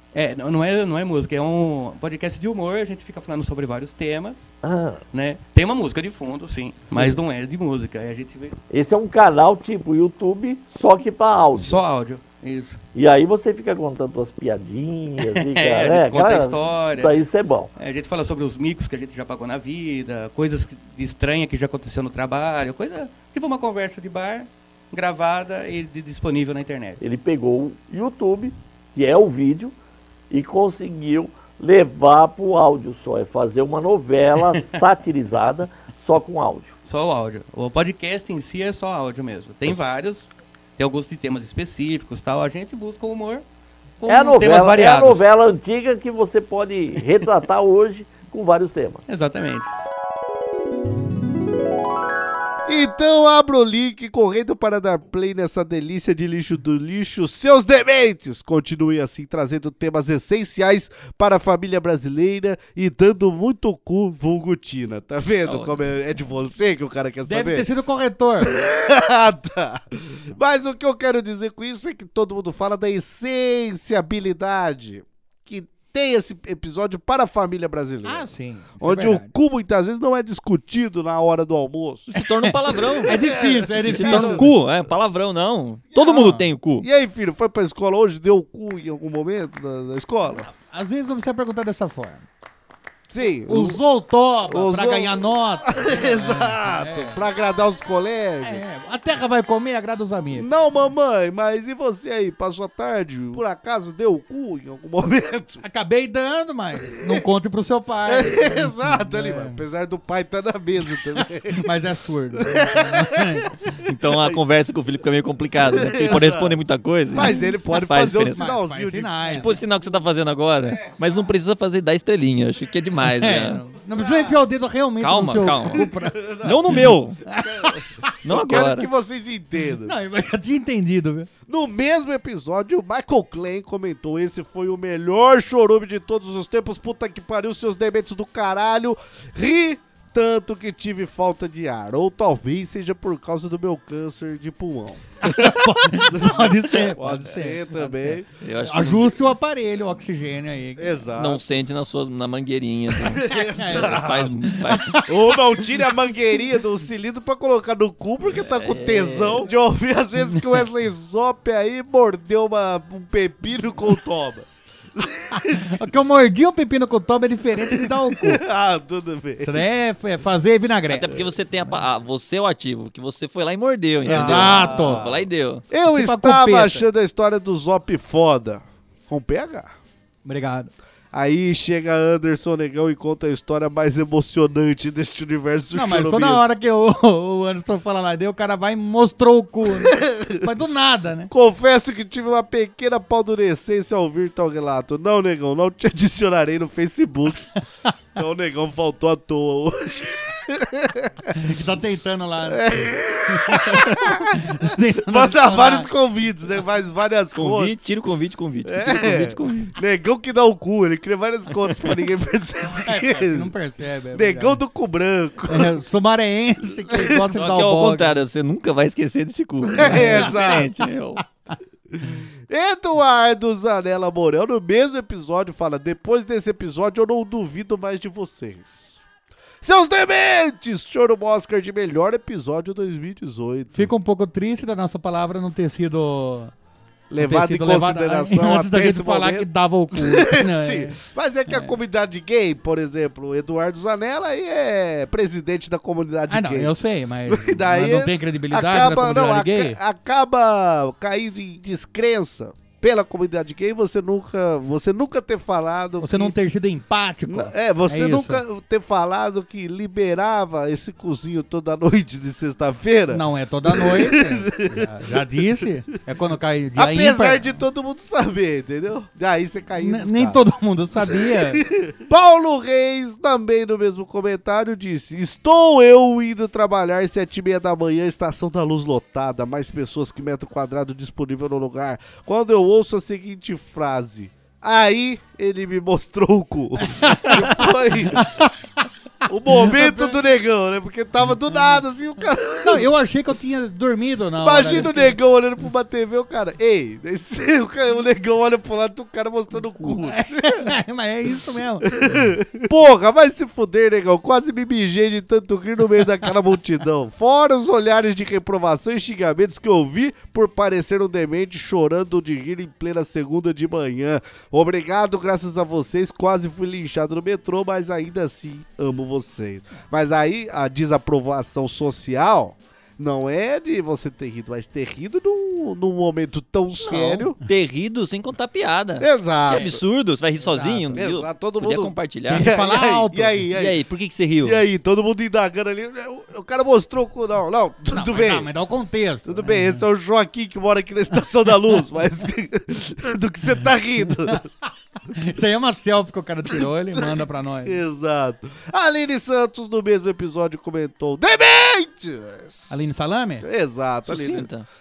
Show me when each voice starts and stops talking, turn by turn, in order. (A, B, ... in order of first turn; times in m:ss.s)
0:00.1-0:04.5 A
0:04.6-0:05.0 B
0:05.1-0:08.6 A
0:06.9-0:07.2 B
0:08.7-0:11.8 B
0:11.6-0:12.8 A
0:12.9-0:17.7 B
0:15.2-0:17.2 A
0:17.8-0:27.0 A
0:27.0-0:29.8 B
0:30.3-0:36.7 B
0:36.8-0:43.4 A
0:44.0-0:45.2 A
0:44.0-0:49.1 B
0:49.1-0:49.7 A
0:52.7-1:07.7 C
1:05.4-1:05.8 D
1:07.2-1:08.5 E
1:08.4-1:22.1 C
1:18.0-1:19.3 E
1:22.1-1:23.1 D
1:22.2-1:24.5 E
1:23.0-1:24.5 C
1:23.9-1:26.8 D
1:26.0-1:26.4 E
1:26.8-1:30.4 C
1:30.5-1:32.2 E
1:33.1-1:33.8 C
1:33.5-1:37.2 E
1:34.5-1:38.6 C
1:38.4-1:40.5 E
1:40.3-1:45.6 C
1:45.6-1:49.6 E
1:48.0-1:51.7 C
1:51.1-1:53.7 E
1:52.4-1:53.4 C
1:53.8-1:58.4 D
1:54.0-1:54.4 C
1:55.6-1:56.6 C
1:57.1-1:59.6 C
1:58.3-1:59.6 E
1:59.3-2:03.6 D
2:03.1-2:06.3 E
2:03.9-2:04.4 C
2:05.0-2:05.8 D
2:05.7-2:09.9 C
2:06.4-2:07.2 D
2:07.2-2:08.1 E
2:08.2-2:08.9 D
2:09.8-2:11.3 E
2:11.5-2:28.3 C
2:25.2-2:31.0 E
2:28.4-2:29.2 D
2:30.8-2:31.4 C
2:31.2-2:35.0 D
2:33.0-2:34.4 C
2:33.3-2:35.6 E
2:35.0-2:45.8 C
2:38.3-2:39.5 D
2:45.3-2:48.4 E
2:47.6-2:49.6 C
2:49.4-2:51.1 E
2:50.9-2:55.6 D
2:54.0-2:55.0 E
2:54.0-2:59.7 C
2:55.9-2:56.8 E
3:00.2-3:00.7 E
3:01.1-3:06.4 C
3:05.7-3:11.3 E
3:09.8-3:10.4 C
3:11.3-3:17.5 C
3:18.2-3:21.3 C
3:21.3-3:25.9 E
3:22.4-3:27.9 C
3:27.4-3:29.7 D
3:28.6-3:33.5 C
3:32.7-3:34.6 E
3:34.1-3:35.7 C
3:35.5-3:38.2 E
3:36.9-3:37.2 C
3:37.3-3:41.2 D
3:39.7-3:40.7 C
3:39.8-3:40.5 E
3:41.9-3:49.0 C
3:49.6-3:53.9 C
3:53.7-3:56.5 E
3:57.1-4:16.3 C
3:57.2-4:01.8 E
4:06.3-4:09.8 E
4:16.0-4:18.4 E
4:17.3-4:24.9 C
4:23.1-4:27.5 E
4:26.8-4:30.4 C
4:29.8-4:31.6 E
4:31.0-4:48.4 C
4:46.8-4:48.8 E
4:49.2-4:52.9 C
4:49.5-4:50.1 E
4:52.6-4:55.2 E
4:54.4-5:00.7 C
4:59.8-5:02.2 E
5:01.9-5:27.4 C
5:26.8-5:32.5 D
5:29.0-5:29.8 C
5:30.4-5:30.9 E
5:30.9-5:33.8 C
5:32.3-5:33.4 E
5:33.5-5:34.6 D
5:34.4-5:38.5 C
5:37.9-5:39.8 E
5:39.2-5:44.5 C
5:45.1-5:47.8 E
5:46.9-5:52.7 C
5:52.7-5:53.4 E
5:53.4-5:54.5 C
5:54.0-5:54.6 D